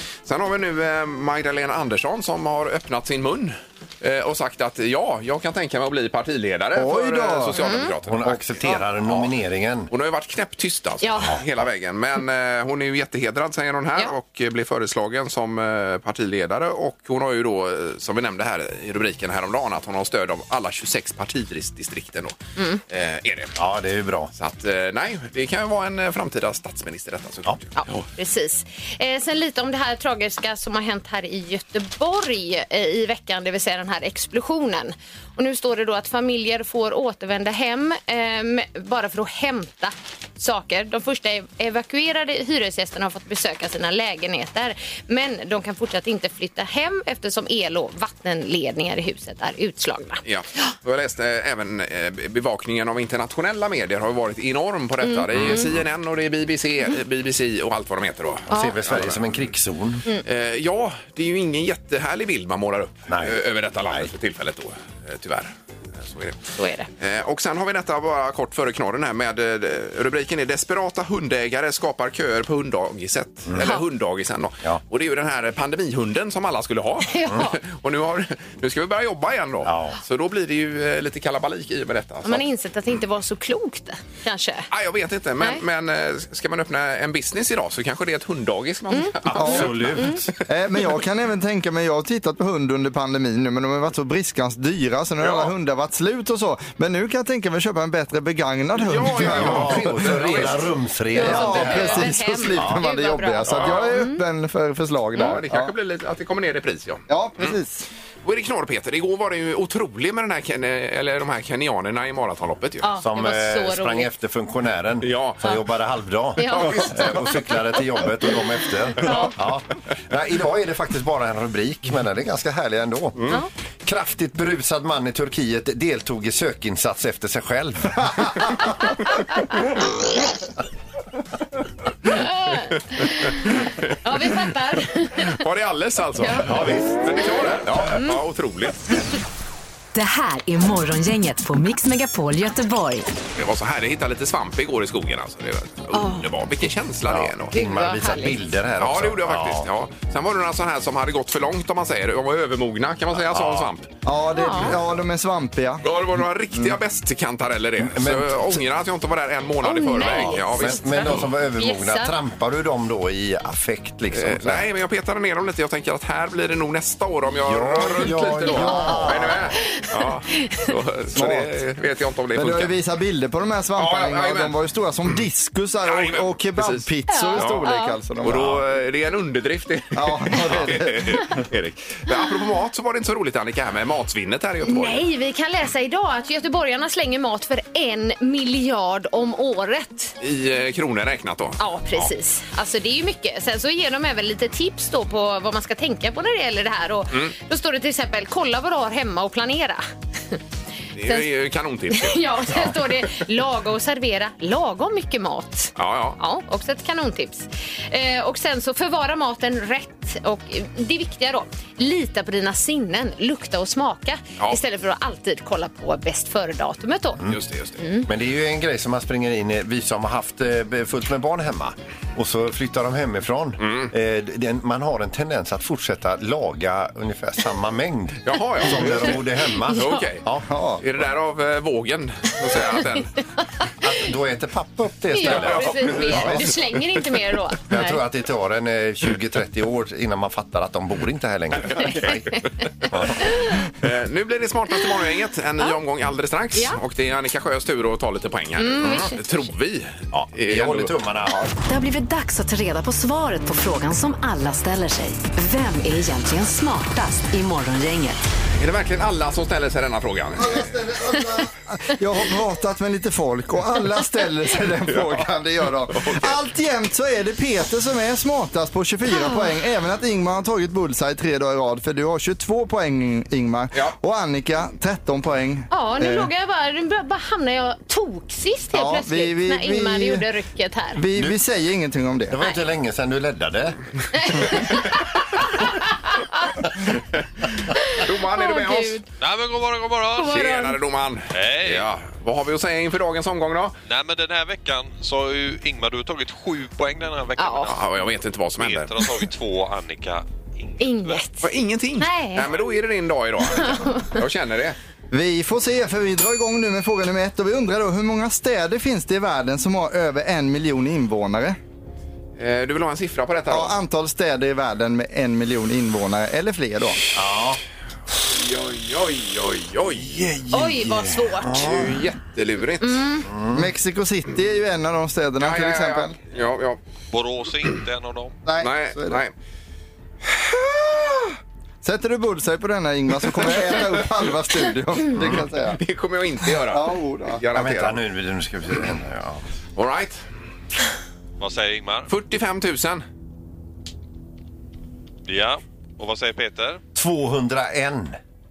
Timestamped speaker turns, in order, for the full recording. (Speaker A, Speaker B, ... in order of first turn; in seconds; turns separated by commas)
Speaker A: 0.3-9.3, Speaker B: 6.8-7.6, Speaker C: 7.6-7.9, Speaker D: 8.1-9.9, Speaker A: 9.9-22.4, Speaker C: 11.0-11.4, Speaker A: 22.9-23.6, Speaker D: 23.6-24.3, Speaker A: 24.4-28.1, Speaker C: 27.8-50.2, Speaker A: 50.2-59.4, Speaker C: 55.0-55.7, Speaker D: 55.4-55.7, Speaker D: 58.5-60.0, Speaker C: 58.5-58.8, Speaker A: 60.2-82.5, Speaker D: 63.1-64.1, Speaker C: 66.6-66.9, Speaker D: 73.5-73.8, Speaker C: 77.0-77.6, Speaker D: 79.6-80.0, Speaker C: 82.2-84.7, Speaker A: 84.7-90.0, Speaker C: 88.9-90.2, Speaker D: 89.2-90.3, Speaker B: 90.5-100.2, Speaker A: 95.2-95.5, Speaker A: 98.8-100.7, Speaker D: 99.1-102.8, Speaker C: 101.1-104.2, Speaker B: 101.2-105.7, Speaker A: 101.6-101.9, Speaker A: 103.5-104.0, Speaker A: 105.2-107.6, Speaker B: 107.1-107.9, Speaker A: 108.2-112.9, Speaker C: 112.8-114.1, Speaker D: 113.0-128.5, Speaker A: 115.0-115.4, Speaker C: 116.4-118.4, Speaker A: 116.5-117.3, Speaker C: 118.9-119.3, Speaker C: 132.1-135.4, Speaker A: 133.6-134.0, Speaker A: 135.2-139.0, Speaker C: 136.2-136.5, Speaker D: 136.4-137.9, Speaker C: 137.9-138.2, Speaker E: 139.9-143.1, Speaker A: 143.4-147.5, Speaker C: 145.9-146.2, Speaker D: 147.1-149.7, Speaker C: 147.5-148.4, Speaker A: 148.8-153.9, Speaker D: 153.2-153.7, Speaker B: 154.1-155.8, Speaker C: 154.4-154.7, Speaker A: 155.8-161.3, Speaker D: 157.8-158.6, Speaker C: 159.6-162.2, Speaker D: 160.0-164.7, Speaker A: 164.1-172.7, Speaker D: 167.4-169.6, Speaker C: 168.5-170.7, Speaker B: 171.2-171.5, Speaker B: 172.3-178.6, Speaker A: 173.8-174.6, Speaker A: 175.8-185.0, Speaker C: 177.1-178.0, Speaker B: 179.9-181.4, Speaker C: 184.6-190.2, Speaker A: 190.2-192.1, Speaker C: 191.6-200.4, Speaker A: 200.9-203.2, Speaker C: 201.9-217.2, Speaker A: 205.8-206.2, Speaker A: 217.2-217.8, Speaker C: 217.8-218.1, Speaker D: 218.1-230.5, Speaker A: 223.6-223.9, Speaker A: 228.2-230.3, Speaker C: 229.7-230.0, Speaker B: 230.4-230.8, Speaker A: 230.8-233.1, Speaker D: 233.8-236.6, Speaker C: 235.1-238.0, Speaker A: 235.2-236.8, Speaker D: 237.7-242.3, Speaker A: 241.7-242.2, Speaker D: 242.9-243.2, Speaker C: 243.2-243.6, Speaker A: 243.8-250.9, Speaker C: 248.6-249.2, Speaker D: 248.8-249.1, Speaker D: 250.1-251.5, Speaker E: 251.6-258.2, Speaker A: 258.6-260.7, Speaker B: 260.4-276.3, Speaker A: 264.9-265.3, Speaker A: 265.9-266.4, Speaker C: 269.1-269.5, Speaker C: 275.7-281.0, Speaker B: 278.7-280.3, Speaker B: 280.9-282.4, Speaker D: 281.1-281.4, Speaker D: 282.3-284.5, Speaker C: 284.1-286.6, Speaker C: 287.7-289.0, Speaker A: 287.9-289.0, Speaker F: 289.2-290.4, Speaker C: 290.1-290.8, Speaker A: 290.2-293.8, Speaker F: 291.3-291.9, Speaker F: 293.9-298.0, Speaker C: 297.4-297.8, Speaker A: 297.7-298.9, Speaker F: 298.6-301.2, Speaker C: 300.8-301.5, Speaker A: 301.4-304.8, Speaker C: 302.0-302.5, Speaker C: 303.6-304.1, Speaker B: 305.1-311.6, Speaker A: 312.4-313.8, Speaker B: 313.5-317.0, Speaker D: 317.1-317.6, Speaker A: 318.2-320.7, Speaker C: 320.5-321.8, Speaker D: 320.5-322.0, Speaker A: 321.5-323.2, Speaker C: 322.8-323.3, Speaker D: 323.3-323.7, Speaker B: 323.5-326.1, Speaker A: 325.4-326.8, Speaker F: 327.1-328.4, Speaker B: 328.5-329.2, Speaker A: 328.6-329.3, Speaker B: 330.4-335.8, Speaker A: 333.5-333.9, Speaker D: 335.1-335.4, Speaker A: 335.8-338.0, Speaker B: 336.7-337.4, Speaker D: 337.5-339.4, Speaker A: 339.8-340.2, Speaker F: 341.4-342.1, Speaker A: 342.1-343.1, Speaker F: 345.3-346.8, Speaker D: 346.9-348.2